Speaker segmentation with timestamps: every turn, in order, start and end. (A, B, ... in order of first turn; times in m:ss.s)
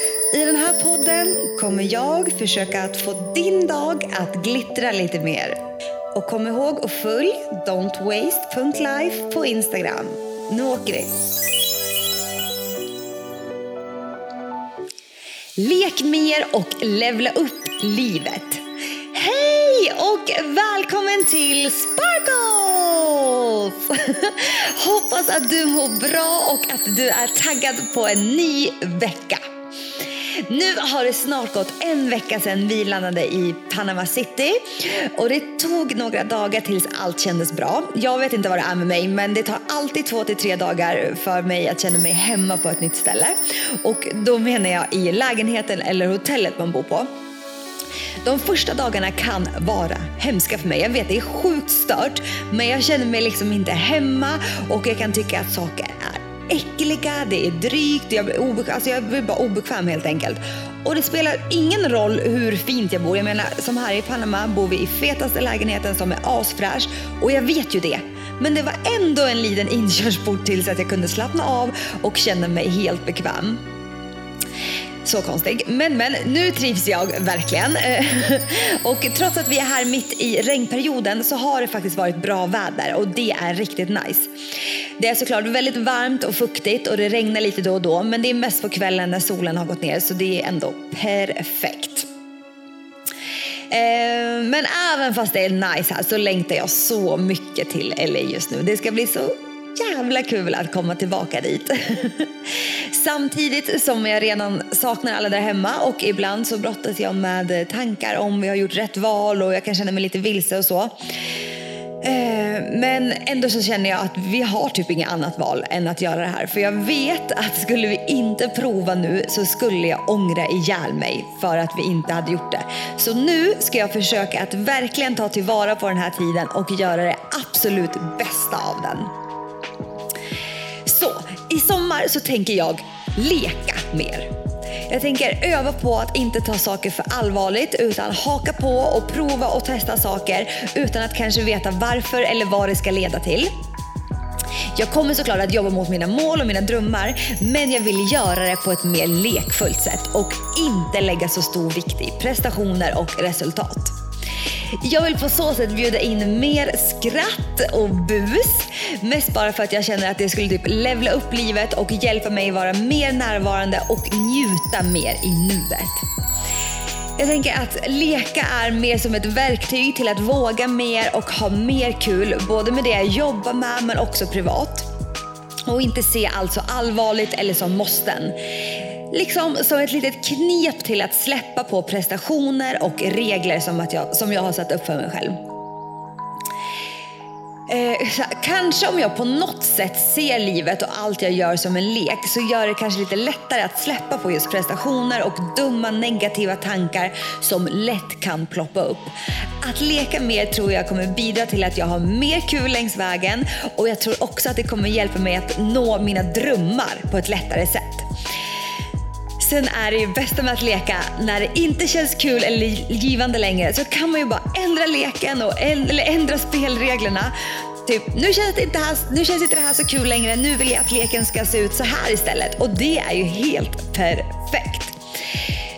0:00.3-0:05.6 A
0:06.2-0:11.1 A
0:15.6-0:18.6 A
0:19.1-0:29.4 A
0:30.5-0:47.1 A
0:48.2-1:13.6 A
1:15.0-1:24.3 A
1:25.0-1:32.1 A
1:33.7-1:51.0 A
1:52.0-2:09.1 A
2:10.8-2:14.3 A
2:14.9-2:23.5 A
2:24.7-2:34.0 A
2:34.8-2:46.0 A
2:47.2-2:54.9 A
2:55.7-2:58.4 A
2:59.1-3:05.4 A
3:07.7-3:28.1 A
3:29.4-3:45.0 A